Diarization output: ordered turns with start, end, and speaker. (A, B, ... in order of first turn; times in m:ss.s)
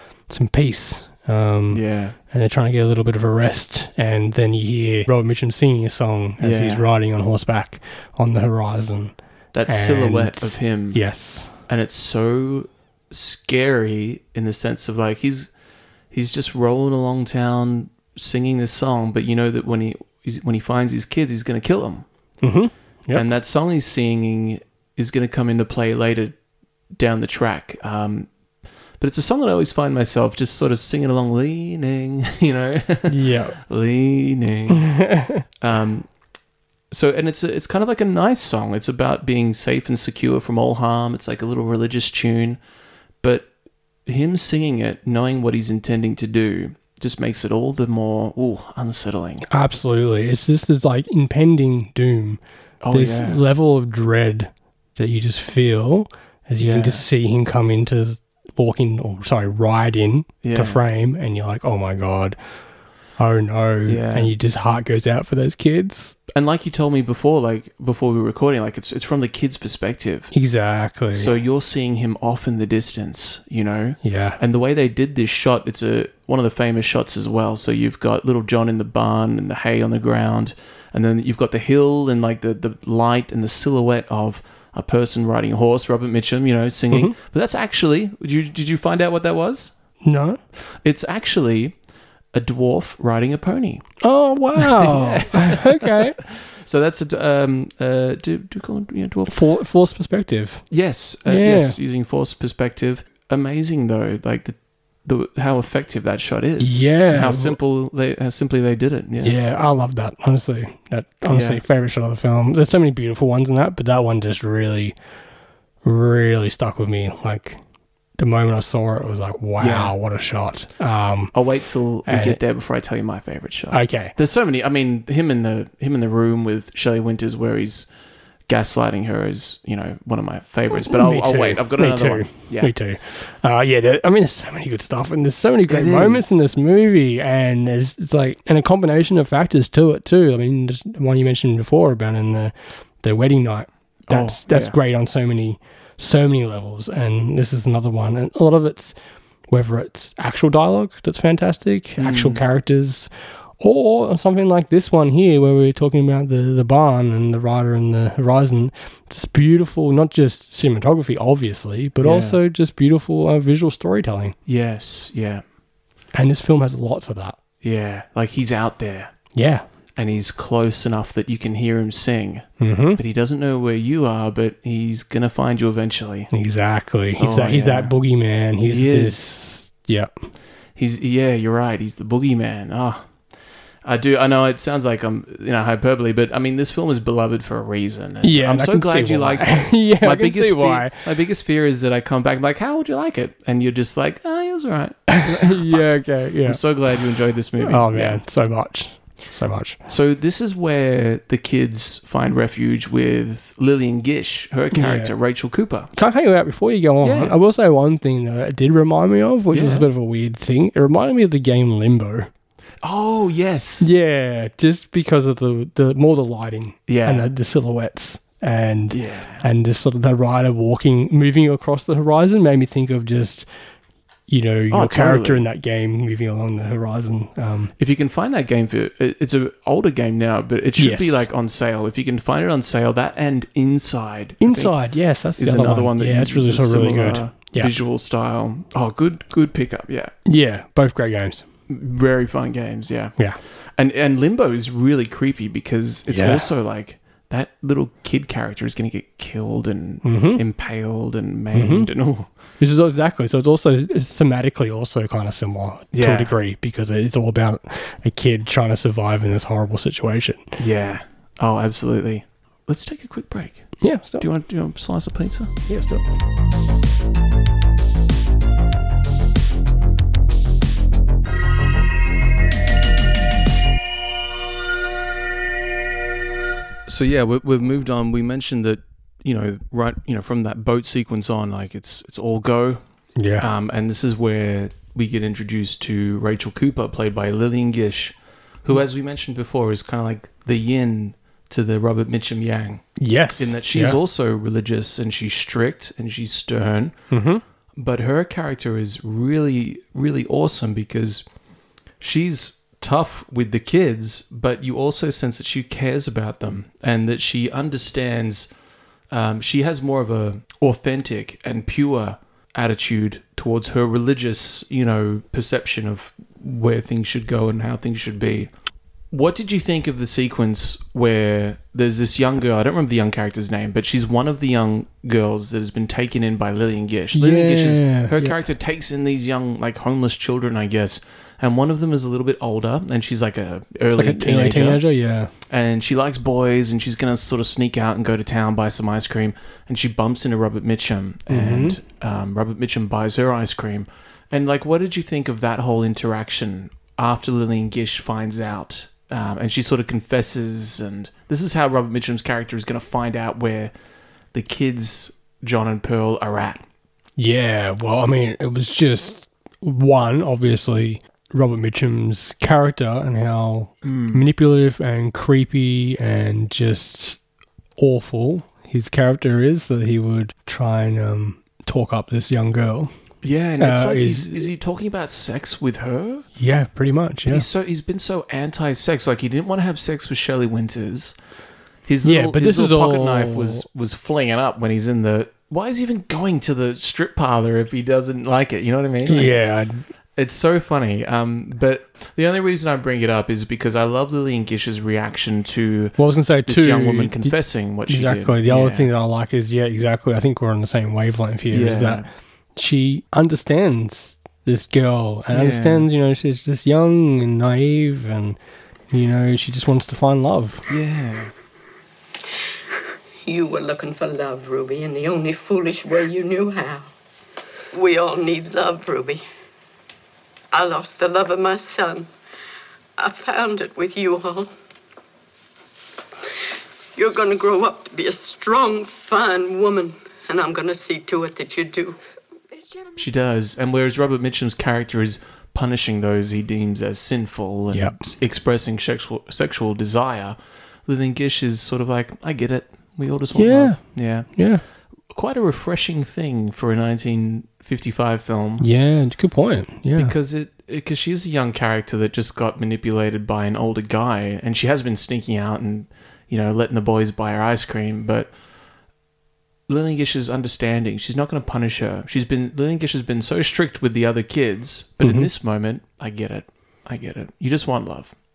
0:00.3-0:11.5 A
0:01.7-0:02.2 B
0:06.4-0:06.9 B
0:09.5-0:11.0 B
0:11.7-0:15.5 B
0:16.1-0:22.0 B
0:22.4-0:23.3 A
0:23.1-0:26.4 B
0:27.0-0:28.3 B
0:29.0-0:34.9 B
0:33.1-0:33.6 A
0:34.7-0:35.4 A
0:35.6-0:36.1 B
0:36.9-0:42.6 B
0:43.2-0:43.5 B
0:44.0-0:49.4 B
0:49.5-1:02.4 A
0:52.8-0:53.4 B
0:56.6-0:57.0 B
1:00.4-1:00.8 B
1:03.2-1:06.2 A
1:03.8-1:04.4 B
1:06.3-1:10.3 B
1:10.3-1:11.3 A
1:11.1-1:29.7 B
1:14.0-1:14.4 A
1:30.0-1:30.4 A
1:30.8-1:31.7 B
1:32.3-1:33.9 B
1:34.0-1:36.2 A
1:34.6-1:39.4 B
1:39.3-1:40.6 A
1:40.7-1:49.4 B
1:41.2-1:41.8 A
1:46.6-1:47.6 A
1:49.2-1:55.0 A
1:51.3-1:51.6 B
1:55.8-1:57.6 A
1:58.2-2:01.3 A
1:59.6-1:59.9 B
2:01.3-2:07.9 B
2:02.0-2:02.4 A
2:03.7-2:04.1 A
2:08.5-2:12.7 B
2:10.7-2:29.0 A
2:15.7-2:16.4 B
2:24.1-2:24.8 B
2:29.5-2:44.3 A
2:32.0-2:32.4 B
2:42.0-2:42.4 B
2:44.4-2:45.4 B
2:46.1-2:47.4 A
2:47.6-2:49.1 B
2:49.3-2:49.6 A
2:50.0-2:56.3 B
2:52.6-2:53.0 A
2:56.3-3:00.1 A
2:57.2-2:57.9 B
2:58.6-2:59.3 B
3:00.8-3:03.1 B
3:03.8-3:15.8 B
3:08.2-3:11.1 A
3:15.1-3:16.6 A
3:16.4-3:18.2 B
3:17.6-3:19.8 A
3:19.9-3:25.9 B
3:24.7-3:25.1 A
3:25.9-3:32.3 A
3:27.0-3:27.3 B
3:29.5-3:29.9 B
3:32.8-3:33.9 B
3:33.8-3:43.5 A
3:36.9-3:37.3 B
3:38.9-3:39.4 B
3:44.3-3:47.7 A
3:44.7-3:45.4 B
3:47.8-3:54.8 B
3:50.8-3:51.3 A
3:54.4-3:57.7 A
3:55.4-4:00.1 B
4:00.2-4:01.4 A
4:01.7-4:12.3 B
4:06.1-4:06.5 A
4:10.0-4:10.4 A
4:11.5-4:11.9 A
4:12.6-4:20.6 A
4:15.9-4:16.3 B
4:20.6-4:25.5 B
4:23.8-4:24.3 A
4:25.6-4:26.0 A
4:36.9-4:42.8 B
4:43.2-4:43.5 A
4:43.4-4:52.8 B
4:53.0-4:54.0 A
4:53.4-4:56.9 B
4:57.1-4:57.4 A
4:57.8-5:01.2 B
5:02.0-5:08.5 B
5:09.1-5:18.5 B
5:19.1-5:34.8 B
5:27.1-5:28.4 A
5:33.9-5:35.3 A
5:35.5-5:53.7 B
5:41.3-5:41.8 A
5:54.3-5:56.6 B
5:57.2-6:07.2 A
6:03.8-6:04.3 B
6:07.8-6:12.9 A
6:13.2-6:16.2 B
6:13.6-6:14.5 A
6:16.4-6:17.4 A
6:17.3-6:21.1 B
6:21.8-6:29.3 B
6:22.0-6:23.6 A
6:29.0-6:29.8 A
6:30.2-6:38.9 B
6:36.0-6:48.4 A
6:41.5-6:42.1 B
6:45.3-6:45.9 B
6:48.9-6:50.7 A
6:50.7-6:51.3 B
6:53.2-6:56.9 C
6:57.7-6:59.2 C
7:00.5-7:02.1 C
7:03.0-7:04.5 C
7:07.0-7:12.0 C
7:13.0-7:24.3 B
7:17.7-7:18.0 A
7:23.3-7:24.6 A
7:25.1-7:28.7 B
7:28.6-7:30.1 A
7:30.0-7:38.3 B
7:39.7-7:48.1 B
7:45.0-7:45.3 A